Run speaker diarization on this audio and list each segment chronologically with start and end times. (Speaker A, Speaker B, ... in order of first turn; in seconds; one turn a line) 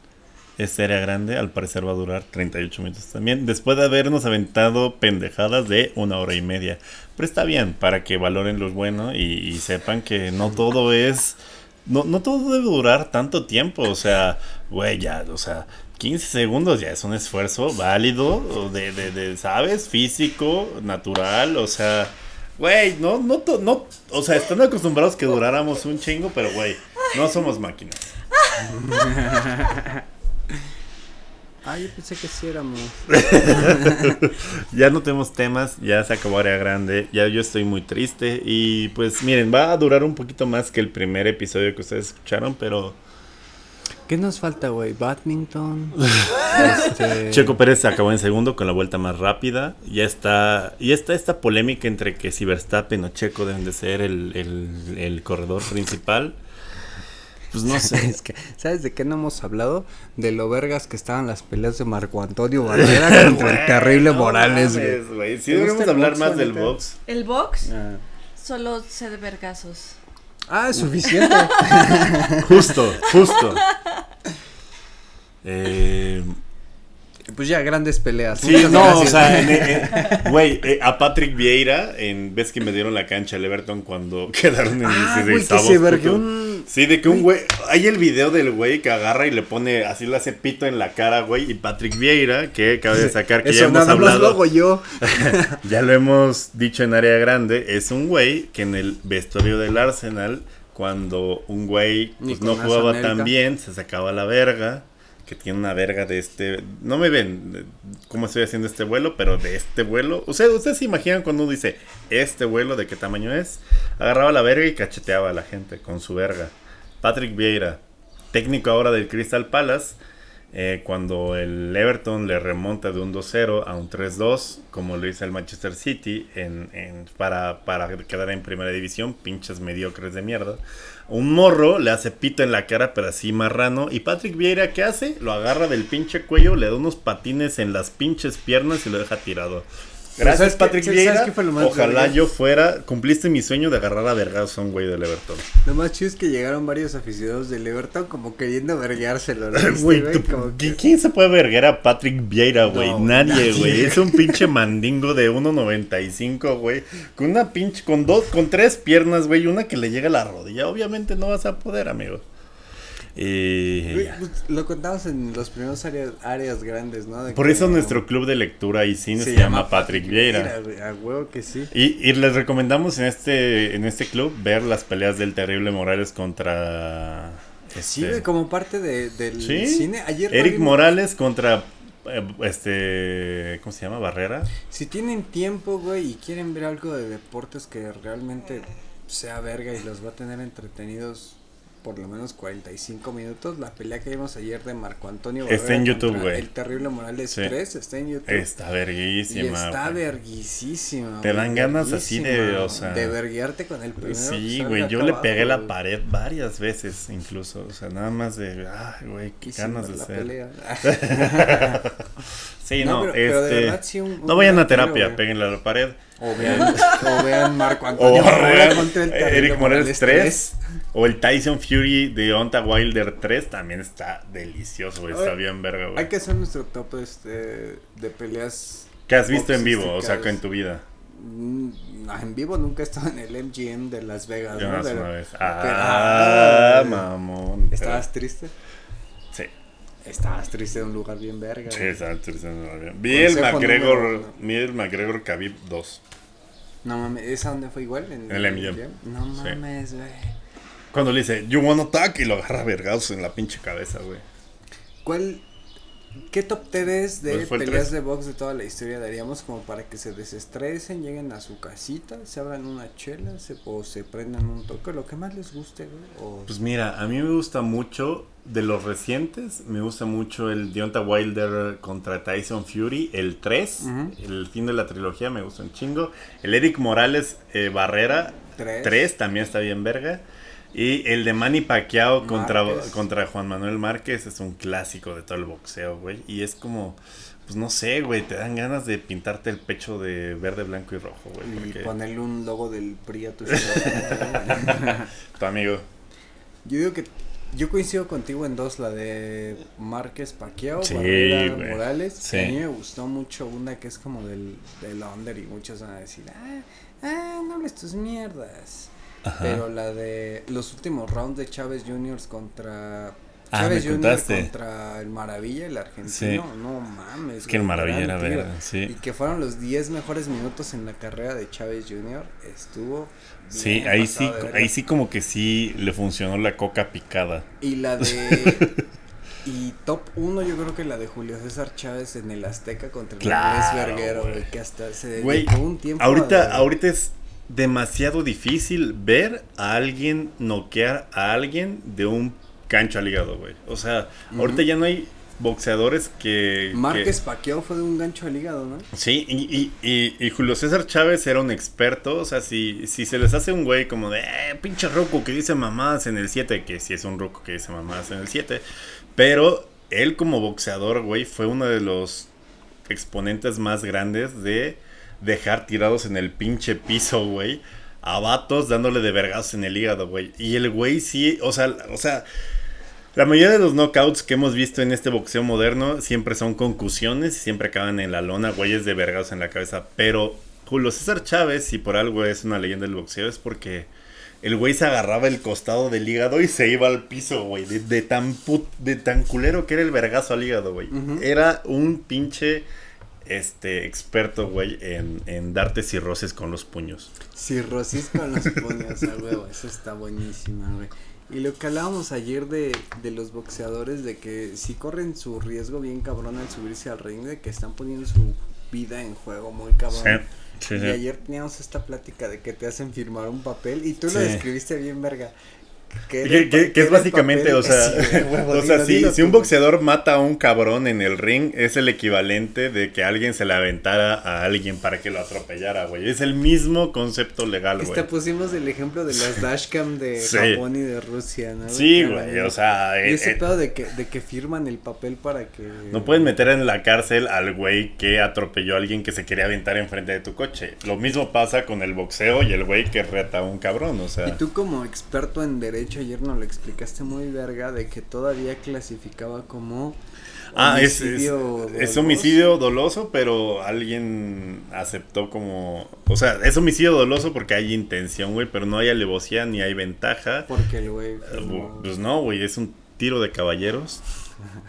Speaker A: 0.6-28.1
Speaker B: 28.6-30.0
Speaker B: 31.6-34.2
Speaker A: 33.1-43.0
Speaker B: 44.1-47.6
Speaker A: 46.1-56.4
Speaker A: 57.5-58.1
Speaker B: 57.6-66.8
Speaker A: 62.7-67.0
Speaker C: 67.0-67.7
Speaker B: 67.6-68.0
Speaker C: 68.4-70.0
Speaker B: 70.5-72.8
Speaker C: 71.0-72.0
Speaker A: 72.4-73.6
Speaker C: 73.0-73.6
Speaker A: 75.4-76.4
Speaker B: 77.3-80.3
Speaker A: 78.3-94.5
Speaker B: 84.8-87.2
Speaker B: 92.9-95.6
Speaker A: 95.0-120.0
Speaker B: 102.2-103.3
Speaker A: 120.5-145.5
Speaker B: 140.2-142.2
Speaker B: 145.6-150.8
Speaker A: 149.5-162.2
Speaker B: 152.6-154.5
Speaker A: 163.1-164.2
Speaker B: 163.9-168.0
Speaker A: 167.3-170.5
Speaker B: 169.1-171.7
Speaker A: 171.7-178.2
Speaker B: 177.8-180.8
Speaker A: 179.4-184.5
Speaker B: 184.6-198.5
Speaker A: 195.4-196.4
Speaker A: 198.3-200.0
Speaker B: 199.3-205.7
Speaker A: 201.2-203.2
Speaker A: 204.0-210.3
Speaker B: 209.4-211.9
Speaker A: 210.8-212.1
Speaker A: 212.6-217.4
Speaker B: 212.8-215.2
Speaker B: 216.2-220.6
Speaker A: 217.9-226.1
Speaker B: 225.1-225.4
Speaker B: 225.9-230.4
Speaker A: 229.1-230.8
Speaker B: 231.0-237.1
Speaker A: 234.5-238.1
Speaker B: 237.7-238.5
Speaker B: 240.0-242.0
Speaker A: 241.7-246.0
Speaker B: 243.1-244.4
Speaker B: 246.8-250.4
Speaker A: 248.3-248.8
Speaker A: 250.9-254.2
Speaker B: 255.0-255.4
Speaker B: 256.3-266.5
Speaker A: 257.3-257.9
Speaker A: 266.5-291.9
Speaker B: 273.8-274.1
Speaker B: 278.6-279.1
Speaker B: 282.2-283.0
Speaker B: 291.4-295.1
Speaker A: 293.5-295.9
Speaker B: 296.6-324.7
Speaker A: 300.8-302.6
Speaker A: 309.2-309.6
Speaker A: 313.5-314.5
Speaker A: 316.0-316.4
Speaker A: 317.5-318.9
Speaker A: 323.5-327.5
Speaker B: 327.6-328.7
Speaker A: 328.0-328.8
Speaker B: 329.4-336.7
Speaker A: 333.2-334.4
Speaker A: 335.1-347.1
Speaker B: 344.3-344.6
Speaker B: 346.7-348.9
Speaker A: 348.9-358.6
Speaker A: 359.1-362.3
Speaker A: 362.9-372.2
Speaker A: 373.1-383.9
Speaker A: 384.4-392.7
Speaker B: 390.9-391.2
Speaker A: 393.2-397.1
Speaker B: 397.3-415.3
Speaker A: 409.9-411.0
Speaker A: 414.1-414.4
Speaker B: 416.1-419.5
Speaker A: 416.2-428.1
Speaker B: 427.8-436.3
Speaker A: 430.2-430.6
Speaker A: 431.7-433.4
Speaker A: 435.9-444.4
Speaker B: 444.2-450.0
Speaker B: 450.5-452.5
Speaker A: 450.5-460.5
Speaker B: 460.5-461.9
Speaker A: 461.2-464.0